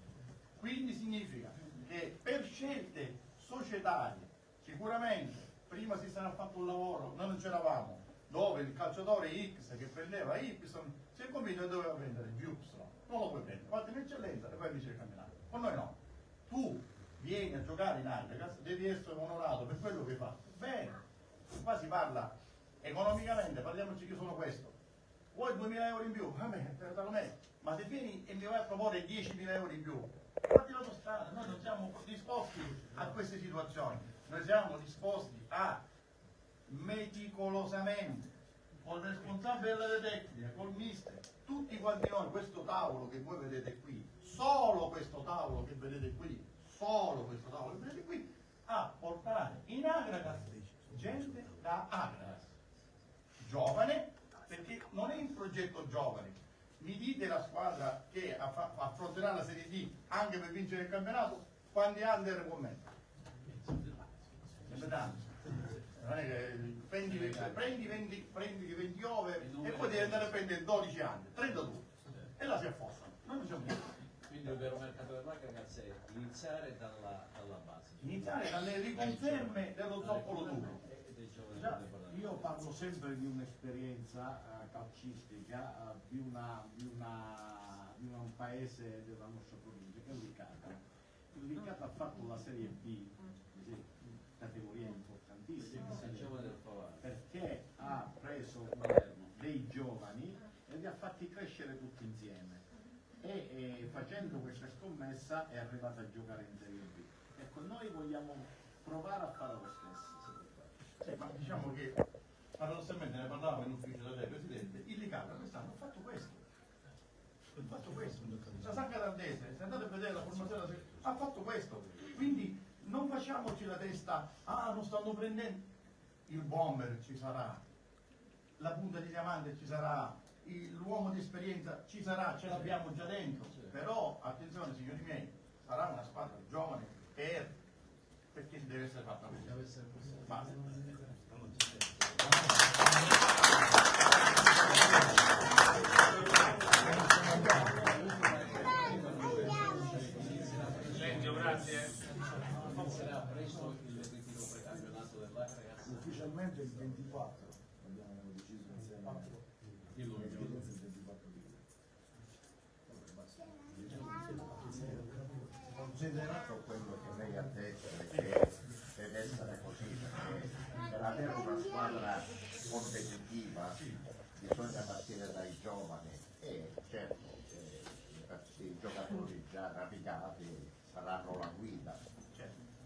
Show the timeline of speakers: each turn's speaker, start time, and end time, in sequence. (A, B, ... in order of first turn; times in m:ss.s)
0:00.6-0:16.0 A
0:16.5-0:24.7 A
0:25.3-0:35.8 A
0:36.7-0:38.3 A
0:38.8-0:52.5 A
0:53.4-1:02.9 A
1:03.5-1:05.8 B
1:04.7-1:13.9 A
1:07.1-1:07.8 B
1:09.4-1:10.4 B
1:14.2-1:22.6 B
1:18.0-1:20.8 A
1:21.5-1:21.8 A
1:22.1-1:30.8 C
1:31.3-1:36.4 C
1:35.6-1:37.1 B
1:37.0-1:42.6 C
1:38.8-1:39.3 B
1:43.2-1:50.7 C
1:51.0-1:52.0 A
1:52.6-1:56.4 A
1:57.6-2:05.6 A
2:06.3-2:07.6 A
2:08.6-2:17.6 A
2:12.4-2:12.8 B
2:13.5-2:13.8 B
2:18.3-2:19.6 A
2:19.4-2:22.5 B
2:20.2-2:20.6 A
2:24.8-2:25.1 B
2:25.8-2:36.3 B
2:35.8-2:39.4 D
2:39.9-2:40.7 B
2:40.0-2:41.7 D
2:42.9-2:43.9 D
2:45.6-2:53.8 E
2:53.7-2:54.0 A
2:54.3-3:02.0 E
3:02.3-3:02.6 A